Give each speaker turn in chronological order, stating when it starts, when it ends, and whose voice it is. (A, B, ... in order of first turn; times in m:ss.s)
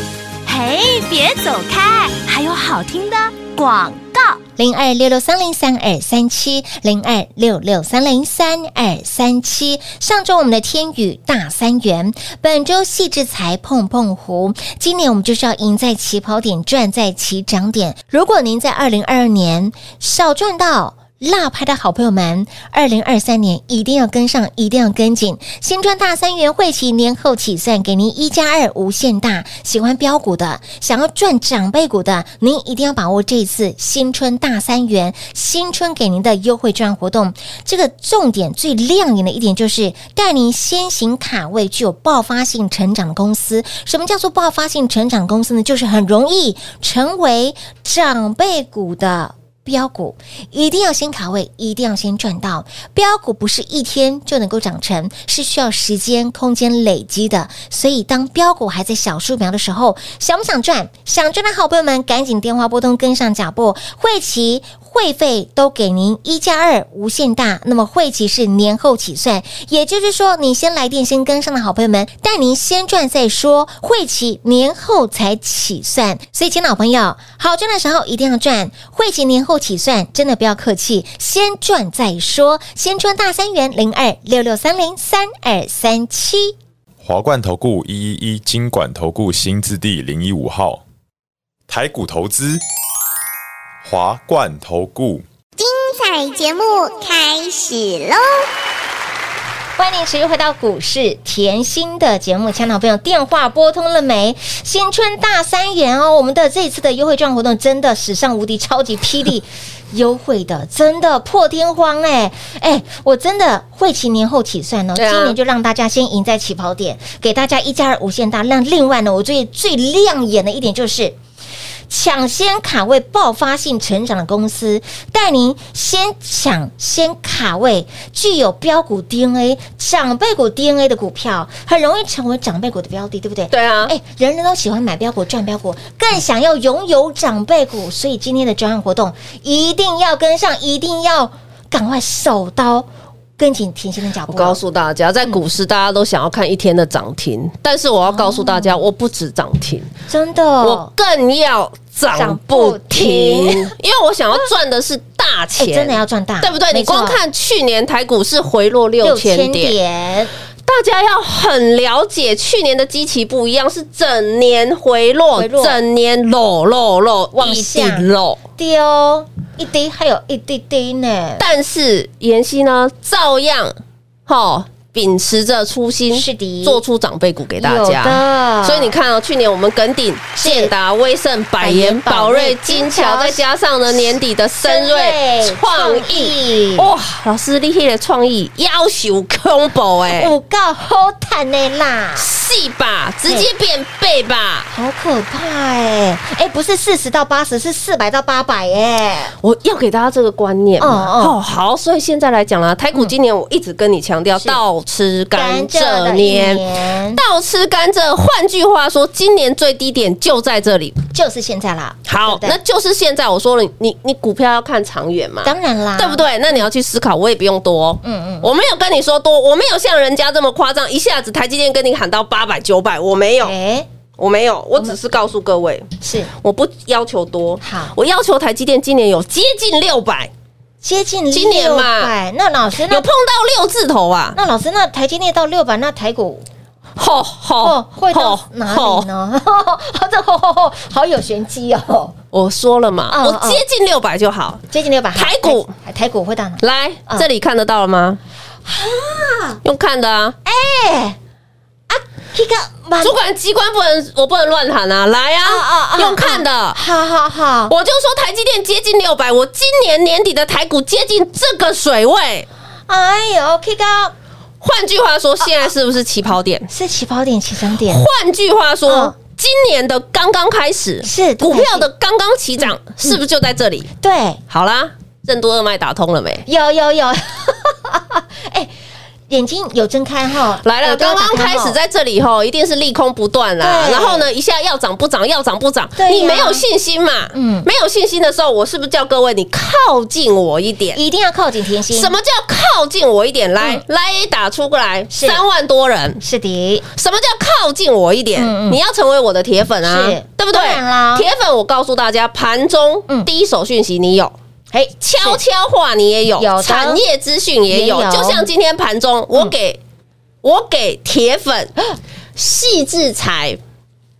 0:00.4-0:04.4 A
0:04.6-1:26.5 B
1:27.0-1:30.8 C
1:31.7-1:32.6 C
1:33.8-1:35.2 C
1:35.6-1:38.4 D
1:39.8-2:01.2 B
1:54.9-1:55.4 E
2:01.9-2:22.9 B
2:13.5-2:13.9 E
2:23.4-2:24.6 B
2:24.3-2:29.9 E
2:28.1-2:28.8 B
2:30.1-2:30.9 B
2:30.6-2:39.7 E
2:32.1-2:33.7 B
2:35.6-2:37.2 B
2:39.0-2:40.3 B
2:40.6-2:48.4 E
2:45.3-2:45.8 B
2:47.3-2:48.1 B
2:48.6-2:51.4 B
2:51.4-2:53.7 E
2:54.3-3:10.3 E
2:56.1-2:56.8 B
2:57.6-2:58.9 B
3:00.4-3:00.7 B
3:01.6-3:03.4 B
3:04.6-3:06.9 B
3:10.1-3:12.3 B
3:12.2-3:14.7 E
3:14.7-3:19.3 B
3:19.4-3:26.6 E
3:20.8-3:21.4 B
3:25.3-3:27.2 B
3:27.1-3:31.0 E
3:31.1-3:32.6 B
3:32.0-3:43.5 E
3:35.4-3:36.2 B
3:38.0-3:38.5 B
3:43.4-3:43.9 B
3:44.2-3:50.3 E
3:46.0-3:46.3 B
3:47.6-3:47.9 B
3:50.8-3:53.0 B
3:51.3-3:52.1 E
3:52.9-3:54.4 E
3:54.3-3:56.4 B
3:57.0-3:59.1 E
3:57.6-4:02.1 B
4:02.3-4:04.6 E
4:03.1-4:03.6 B
4:04.7-4:07.2 B
4:05.1-4:05.7 E
4:06.6-4:08.2 E
4:08.6-4:09.6 B
4:09.6-4:10.4 E
4:10.4-4:11.2 B
4:11.9-4:13.2 B
4:13.0-4:16.8 E
4:15.4-4:17.7 B
4:17.7-4:22.5 E
4:22.9-4:24.1 B
4:24.6-4:26.7 E
4:26.7-4:28.0 B
4:27.9-4:33.9 E
4:28.9-4:29.1 B
4:31.0-4:31.9 B
4:34.0-4:34.4 B
4:34.5-4:36.4 E
4:36.4-4:38.7 B
4:39.3-4:41.8 B
4:40.6-4:51.0 E
4:43.6-4:44.3 B
4:46.0-4:46.6 B
4:47.3-4:47.7 B
4:50.9-4:52.1 B
4:51.9-4:56.2 E
4:55.1-4:55.4 B
4:56.2-4:56.8 B
4:56.9-5:04.3 E
4:58.4-4:58.8 B
4:59.8-5:01.3 B
5:04.7-5:05.4 B
5:05.0-5:09.8 E
5:06.4-5:07.0 B
5:07.7-5:08.5 B
5:10.4-5:11.7 E
5:12.4-5:13.6 E